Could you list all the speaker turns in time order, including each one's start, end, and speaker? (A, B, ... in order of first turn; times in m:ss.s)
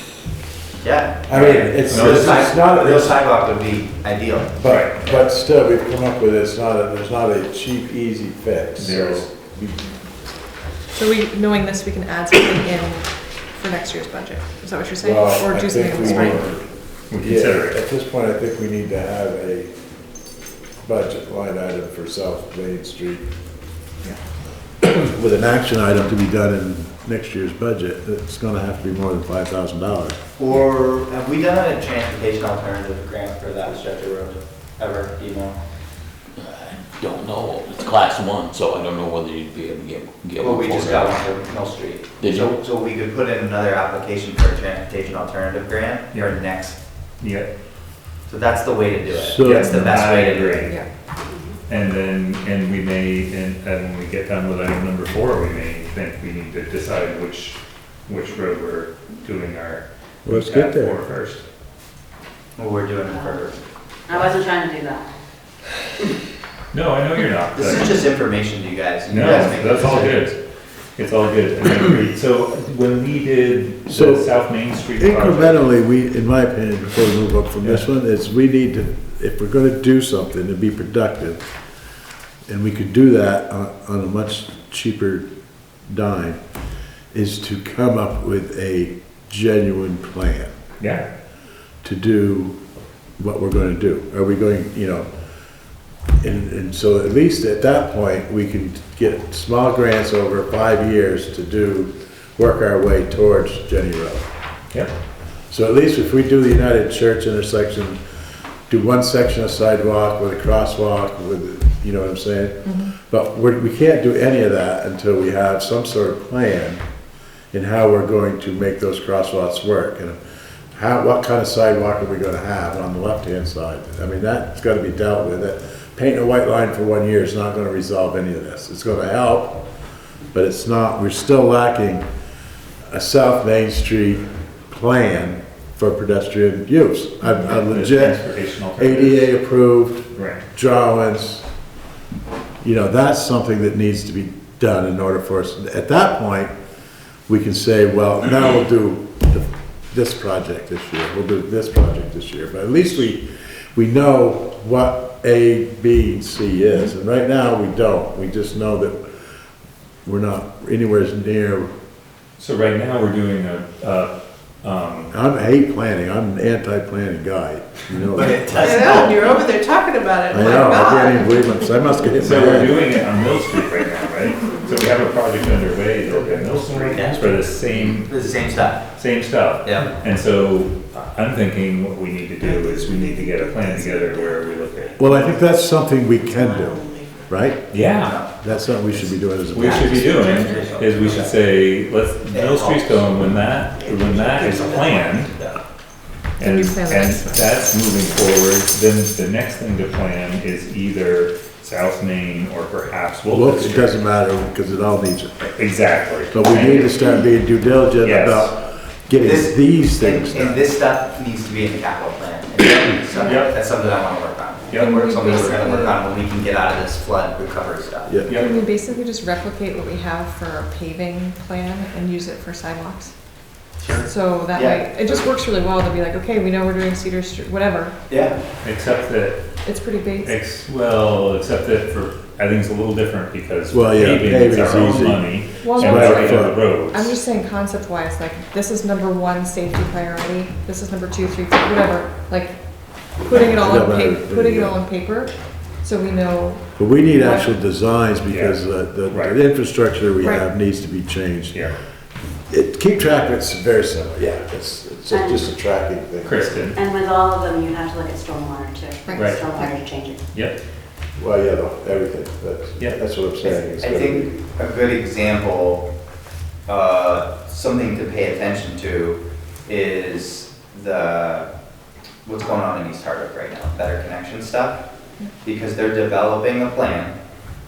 0:00.8-0:05.2 A
0:01.3-0:03.2 B
0:01.9-0:02.4 C
0:04.6-0:09.9 B
0:04.7-0:04.9 C
0:08.8-0:09.3 C
0:11.0-0:16.2 D
0:15.0-0:16.6 B
0:16.0-0:16.5 C
0:17.1-0:17.8 C
0:17.2-0:19.7 B
0:20.8-0:23.2 B
0:24.8-0:30.2 B
0:30.4-0:35.6 A
0:36.4-0:41.2 E
0:40.4-0:46.8 A
0:42.2-0:42.6 E
0:47.2-0:47.5 C
0:48.3-0:50.7 A
0:49.1-0:49.8 B
0:49.4-0:50.8 C
0:51.3-0:51.6 F
0:51.7-1:01.4 C
1:00.2-1:01.0 B
1:02.6-1:03.6 A
1:03.1-1:03.4 F
1:04.1-1:05.1 F
1:06.7-1:08.0 C
1:07.5-1:10.3 A
1:09.1-1:10.4 C
1:11.0-1:15.7 C
1:13.9-1:14.3 B
1:15.0-1:21.4 B
1:22.5-1:25.2 B
1:25.9-1:26.4 B
1:27.1-1:30.5 B
1:30.8-1:31.0 C
1:31.8-1:32.6 B
1:33.2-1:35.1 B
1:36.2-1:44.2 B
1:45.5-1:48.0 B
1:48.7-1:56.8 B
1:57.5-2:00.2 B
2:00.7-2:09.6 B
2:10.3-2:12.0 B
2:12.9-2:18.2 B
2:17.4-2:19.3 C
2:18.8-2:21.4 B
2:20.2-2:20.4 C
2:22.6-2:26.5 B
2:27.3-2:33.2 B
2:33.8-2:39.0 B
2:40.0-2:41.7 B
2:42.4-2:45.1 C
2:45.1-2:49.3 B
2:48.2-2:49.5 A
2:50.3-2:53.0 B
2:52.2-2:58.2 C
2:56.4-2:58.8 A
2:58.9-3:05.5 C
2:59.6-2:59.9 A
3:02.4-3:04.9 D
3:05.0-3:07.6 B
3:06.2-3:07.3 D
3:07.7-3:08.2 C
3:08.0-3:11.4 A
3:08.4-3:10.2 B
3:09.5-3:15.3 C
3:10.5-3:10.8 D
3:12.3-3:13.1 A
3:14.0-3:15.0 D
3:14.2-3:15.6 A
3:16.4-3:24.0 C
3:16.4-3:17.5 D
3:23.3-3:25.5 B
3:25.6-3:27.2 C
3:26.3-3:30.6 B
3:28.0-3:28.5 C
3:29.2-3:38.2 A
3:33.1-3:33.6 C
3:34.8-3:36.0 D
3:38.1-3:38.5 B
3:38.3-3:43.1 D
3:43.8-3:45.3 A
3:44.0-3:48.0 D
3:48.1-3:48.4 A
3:48.6-3:49.4 C
3:49.6-3:50.3 D
3:50.2-3:57.2 C
3:53.7-3:56.6 B
3:55.6-4:02.6 D
4:03.2-4:07.4 D
4:03.3-4:04.8 B
4:06.8-4:11.6 B
4:08.3-4:09.4 C
4:12.5-4:16.6 B
4:15.1-4:15.5 F
4:16.2-4:16.8 C
4:16.7-4:20.2 F
4:19.2-4:19.5 C
4:20.3-4:20.6 C
4:21.2-4:24.4 B
4:23.4-4:25.9 A
4:26.7-4:31.5 A
4:32.2-4:34.8 A
4:35.4-4:37.1 A